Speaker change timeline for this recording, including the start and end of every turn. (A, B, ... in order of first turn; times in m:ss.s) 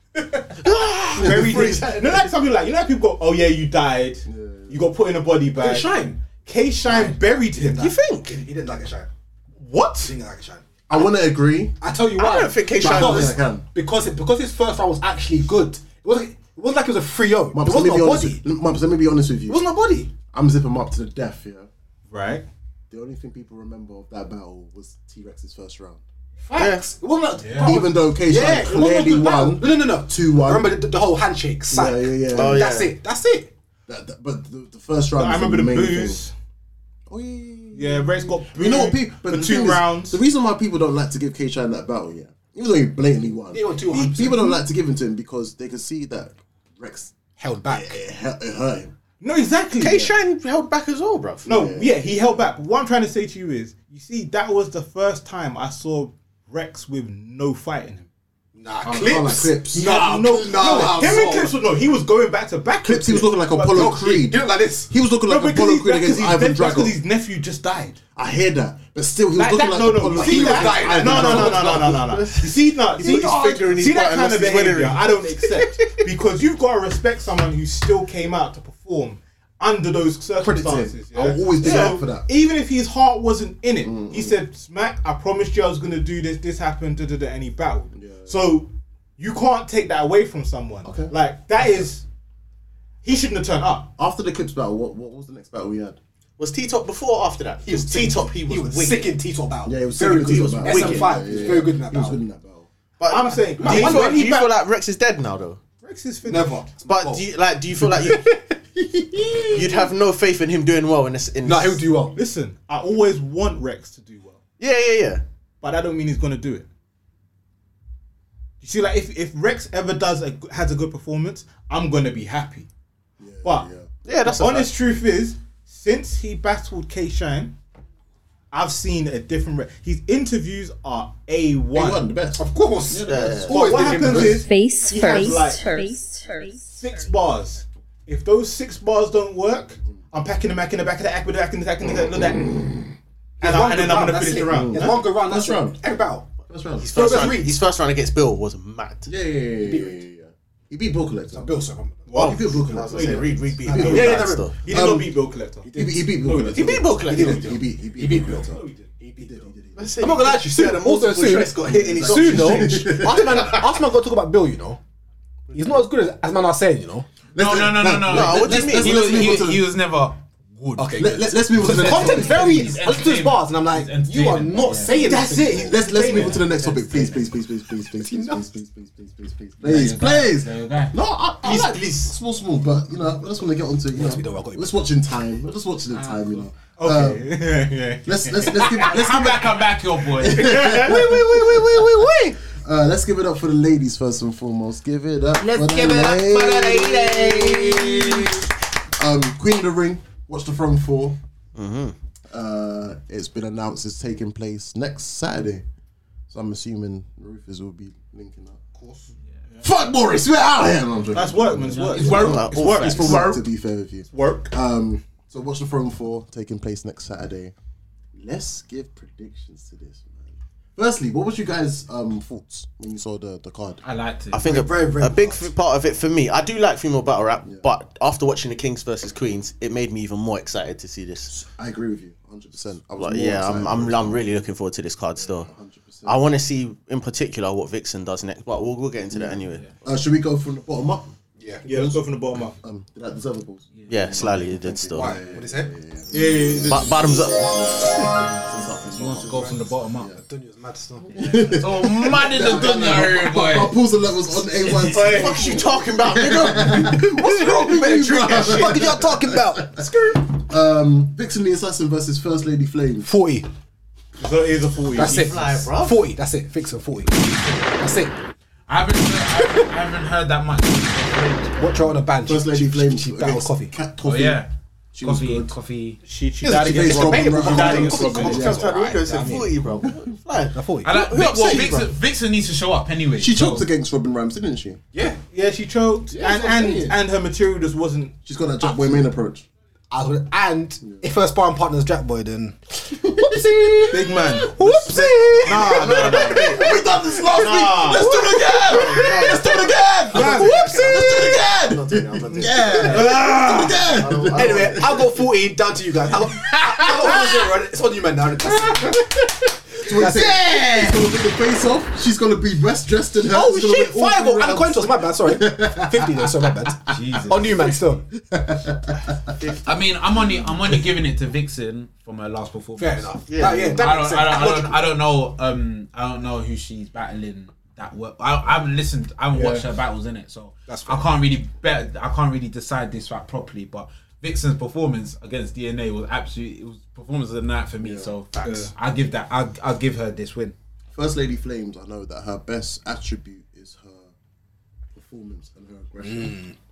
0:00.4-0:07.9 A
0:00.6-0:01.9 B
0:01.2-0:02.3 C
0:04.3-0:04.9 C
0:05.6-0:06.2 D
0:06.8-0:09.1 D
0:07.8-0:08.4 B
0:09.6-0:10.1 A
0:10.0-0:10.6 D
0:10.9-0:11.8 C
0:11.8-0:18.4 D
0:12.2-0:13.4 B
0:12.8-0:13.6 C
0:17.5-0:19.7 C
0:19.5-0:20.1 D
0:20.2-0:21.7 C
0:22.1-0:22.5 A
0:22.9-0:26.0 C
0:26.4-0:33.5 D
0:26.6-0:26.9 B
0:27.4-0:27.7 A
0:27.6-0:30.8 C
0:31.7-0:32.7 C
0:32.3-0:33.0 B
0:33.9-0:36.2 C
0:35.2-0:36.3 A
0:37.1-0:47.1 C
0:37.7-0:40.2 A
0:43.5-0:44.6 D
0:43.9-0:44.4 A
0:47.4-0:48.0 D
0:47.6-0:48.9 C
0:49.2-0:50.1 A
0:49.8-0:51.5 B
0:51.4-0:52.4 C
0:51.5-0:58.1 A
0:58.6-1:01.6 D
0:58.8-0:59.9 C
0:59.7-1:03.9 A
1:00.6-1:01.2 C
1:02.8-1:07.0 C
1:03.6-1:04.9 D
1:05.2-1:08.0 A
1:08.2-1:12.1 C
1:09.4-1:32.0 A
1:10.1-1:12.0 D
1:11.7-1:15.9 B
1:20.4-1:22.3 C
1:21.6-1:22.0 B
1:23.8-1:24.4 C
1:27.9-1:28.5 C
1:30.8-1:31.8 C
1:33.0-1:33.9 A
1:34.0-1:36.0 C
1:36.4-1:39.1 B
1:37.7-1:42.2 D
1:39.6-1:42.7 C
1:40.2-1:41.4 B
1:43.0-1:45.6 B
1:43.0-1:44.4 A
1:43.6-1:44.5 D
1:45.8-1:46.7 A
1:46.3-1:47.2 D
1:46.8-1:48.3 B
1:47.8-1:49.7 D
1:49.5-1:51.9 B
1:51.4-1:52.2 D
1:52.1-1:54.4 A
1:54.6-1:55.2 B
1:55.6-1:56.7 A
1:58.6-2:02.7 A
2:03.2-2:03.9 C
2:04.0-2:04.7 B
2:04.2-2:07.6 A
2:08.5-2:12.1 A
2:11.7-2:14.4 C
2:12.4-2:14.4 D
2:13.0-2:13.6 B
2:13.5-2:15.7 A
2:14.4-2:16.7 E
2:16.7-2:22.6 A
2:23.4-2:26.3 D
2:23.4-2:25.0 A
2:24.5-2:25.8 C
2:26.5-2:27.2 C
2:26.8-2:29.1 B
2:26.9-2:27.6 D
2:29.1-2:31.5 C
2:29.6-2:30.0 D
2:31.3-2:32.1 D
2:32.1-2:37.6 A
2:32.1-2:35.1 C
2:32.1-2:34.6 B
2:33.6-2:34.6 D
2:35.7-2:38.6 C
2:35.7-2:36.3 D
2:36.5-2:37.6 B
2:36.9-2:44.8 D
2:38.5-2:38.9 A
2:39.2-2:40.1 C
2:39.8-2:43.7 B
2:41.7-2:43.6 C
2:45.5-2:47.1 D
2:47.3-2:49.6 C
2:47.4-2:51.0 F
2:48.1-2:49.4 B
2:50.8-2:55.8 D
2:51.0-2:52.8 C
2:51.5-2:55.2 F
2:55.0-2:56.6 A
2:55.6-3:07.4 C
2:56.2-2:57.3 F
2:57.9-2:58.4 D
2:59.6-3:01.0 F
3:03.9-3:04.8 D
3:05.9-3:06.5 F
3:06.8-3:08.9 A
3:08.0-3:18.4 C
3:08.6-3:10.7 F
3:10.2-3:11.1 A
3:10.8-3:12.4 D
3:15.6-3:16.3 D
3:19.0-3:21.2 C
3:21.6-3:22.0 B
3:22.3-3:25.6 C
3:26.3-3:28.6 C
3:28.8-3:29.1 D
3:29.6-3:37.5 C
3:31.1-3:33.4 A
3:31.6-3:32.5 F
3:32.0-3:33.4 B
3:34.1-3:34.5 A
3:38.2-3:43.8 C
3:43.8-3:44.5 F
3:44.3-3:51.3 B
3:44.4-3:45.5 D
3:51.3-3:54.3 C
3:53.0-3:55.5 B
3:55.2-3:56.2 C
3:56.0-3:59.7 B
3:59.1-4:01.1 C
4:01.4-4:01.6 D
4:01.6-4:02.6 A
4:01.7-4:02.0 C
4:02.6-4:10.2 C
4:03.8-4:04.2 F
4:03.9-4:05.1 B
4:04.7-4:05.8 D
4:06.1-4:06.9 A
4:06.7-4:07.8 B
4:08.9-4:10.1 F
4:09.2-4:11.5 D
4:11.1-4:23.1 C
4:11.5-4:13.8 F
4:14.6-4:14.9 F
4:14.8-4:15.6 A
4:14.9-4:19.0 B
4:16.8-4:20.3 D
4:23.0-4:23.5 D
4:24.2-4:25.3 A
4:24.9-4:28.2 D
4:25.0-4:26.0 B
4:28.7-4:32.0 F
4:31.6-4:33.7 D
4:32.2-4:35.6 C
4:34.0-4:34.5 F
4:35.0-4:36.0 F
4:36.0-4:38.4 A
4:36.4-4:39.8 D
4:36.4-4:38.7 C
4:37.8-4:38.3 F
4:38.1-4:41.9 B
4:40.5-4:41.0 D
4:40.8-4:43.7 F
4:43.2-4:44.8 C
4:44.9-4:45.2 D
4:45.3-4:48.2 A
4:46.2-4:46.9 C
4:46.2-4:47.0 D
4:48.2-4:49.5 C
4:49.9-4:56.1 D
4:50.8-4:51.1 C
4:52.9-4:53.8 C
4:53.9-4:56.6 A
4:54.6-4:55.1 C
4:55.5-4:57.3 B
4:55.9-5:05.1 C
4:57.3-4:58.2 A
4:58.0-4:58.6 D
4:58.4-5:03.2 B
4:59.1-4:59.4 D
5:00.1-5:00.9 D
5:02.3-5:03.8 A
5:03.8-5:05.2 B
5:04.4-5:09.3 D
5:09.8-5:11.0 D
5:09.8-5:19.2 C
5:13.2-5:18.1 D
5:16.9-5:17.6 F
5:19.6-5:23.1 F
5:22.8-5:24.8 D
5:23.3-5:24.0 B
5:23.8-5:40.5 F
5:29.3-5:29.7 D
5:30.7-5:31.1 D
5:37.8-5:38.2 C
5:38.4-5:38.7 A
5:40.9-5:44.1 C
5:44.9-5:46.4 C
5:46.0-5:46.6 D